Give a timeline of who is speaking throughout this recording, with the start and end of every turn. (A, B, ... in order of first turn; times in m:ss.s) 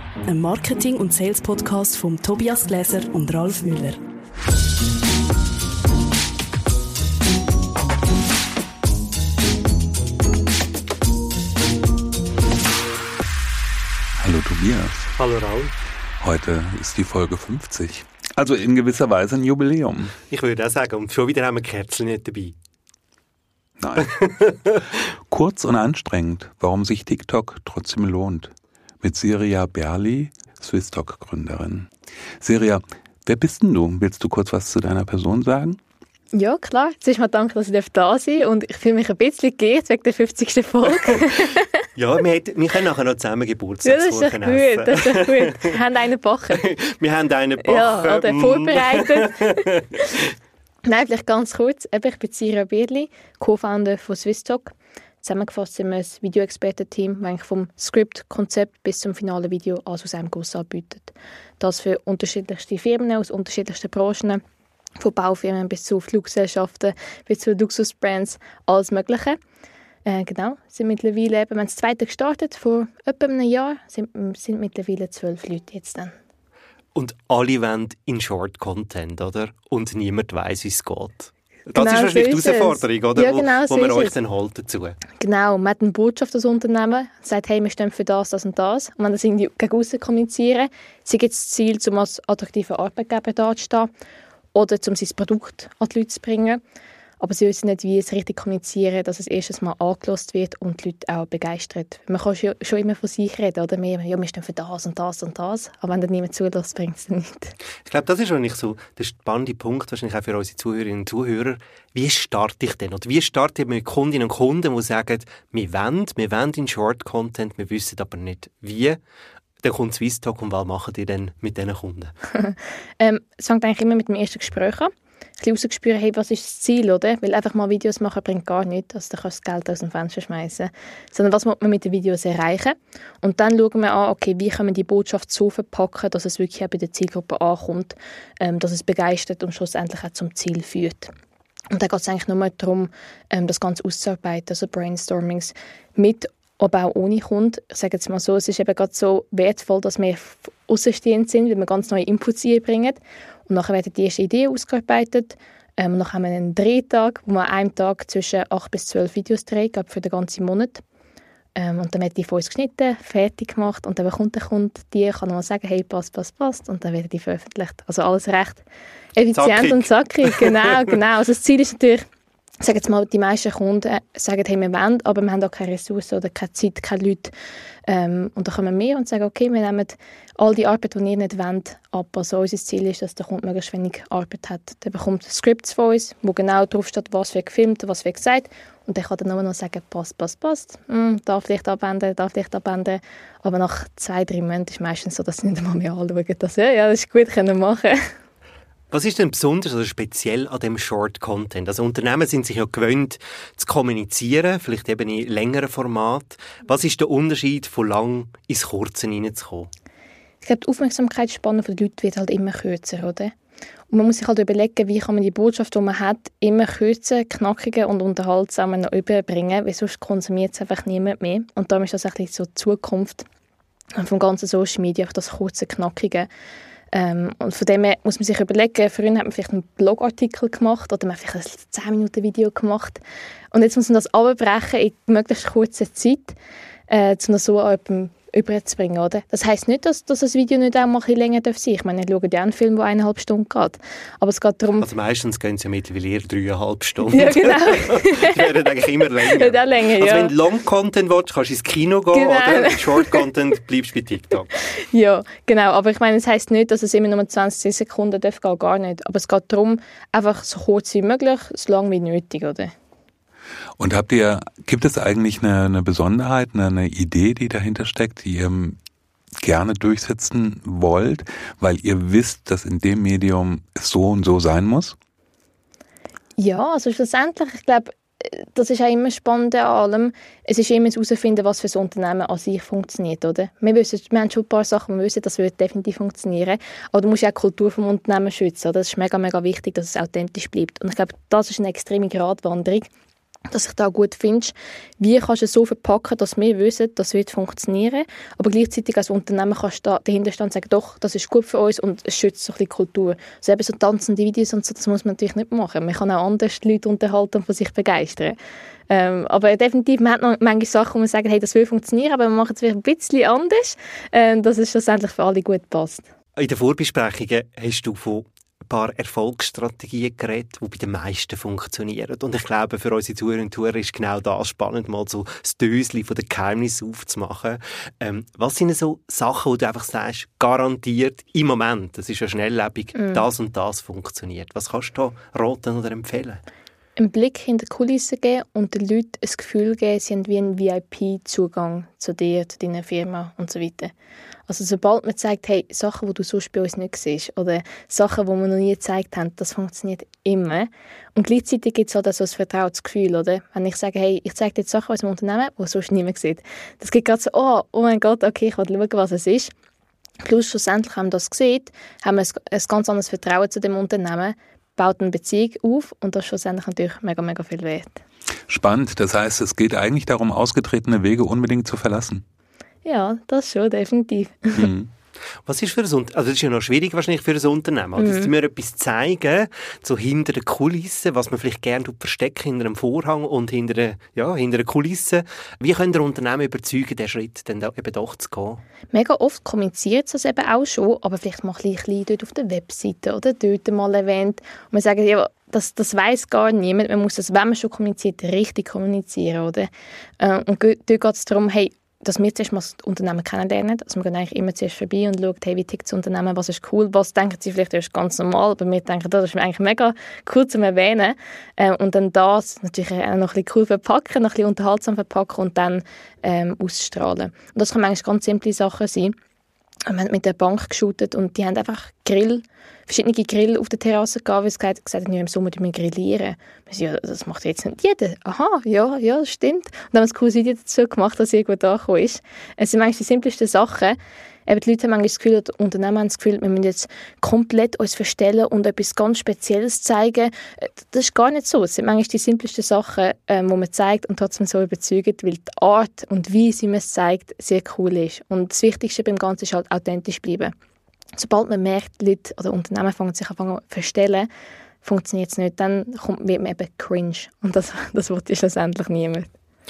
0:00.2-0:04.0 A
0:14.2-0:15.1 B
0:15.2-0:15.7 C
0:16.2-0:20.1 B
0:20.3-0:22.5 C
0:23.8-0:24.1 B
0:24.0-0:24.8 C
0:25.3-0:35.8 B
0:36.3-0:41.7 D
0:42.0-0:45.8 C
0:43.8-0:46.6 D
0:46.5-0:49.8 C
0:47.6-0:49.6 D
0:50.8-1:04.4 D
1:05.0-1:09.4 D
1:10.0-1:16.1 D
1:16.9-1:25.0 C
1:21.7-1:24.1 D
1:25.2-1:33.9 D
1:34.5-1:36.6 D
1:37.2-1:47.5 D
1:47.8-1:59.0 C
1:59.6-2:02.1 C
2:02.4-2:21.1 D
2:21.7-2:40.8 D
2:41.6-2:48.6 D
2:49.2-2:52.1 D
2:49.3-2:50.8 C
2:52.6-2:57.3 D
2:57.9-3:18.1 D
3:18.9-3:29.7 C
3:30.4-3:33.3 D
3:33.9-3:43.2 D
3:44.0-3:46.3 D
3:46.9-3:53.0 D
3:53.5-3:56.4 D
3:56.9-4:04.9 D
4:04.8-4:14.5 C
4:07.1-4:08.7 D
4:09.2-4:10.3 D
4:12.1-4:13.2 D
4:14.9-4:22.7 D
4:23.8-4:28.8 B
4:29.4-4:34.9 B
4:36.4-4:52.9 D
4:53.5-5:08.4 D
5:08.9-5:16.0 D
5:16.4-5:36.4 C
5:33.0-5:33.2 D
5:37.0-5:43.9 D
5:44.5-5:59.5 D
6:00.2-6:08.0 D
6:08.5-6:12.2 B
6:12.8-6:14.7 D
6:14.5-6:14.9 B
6:15.4-6:28.6 C
6:18.0-6:18.3 D
6:28.9-6:59.2 D
6:59.9-7:30.5 D
7:31.2-7:34.3 D
7:34.8-7:39.3 D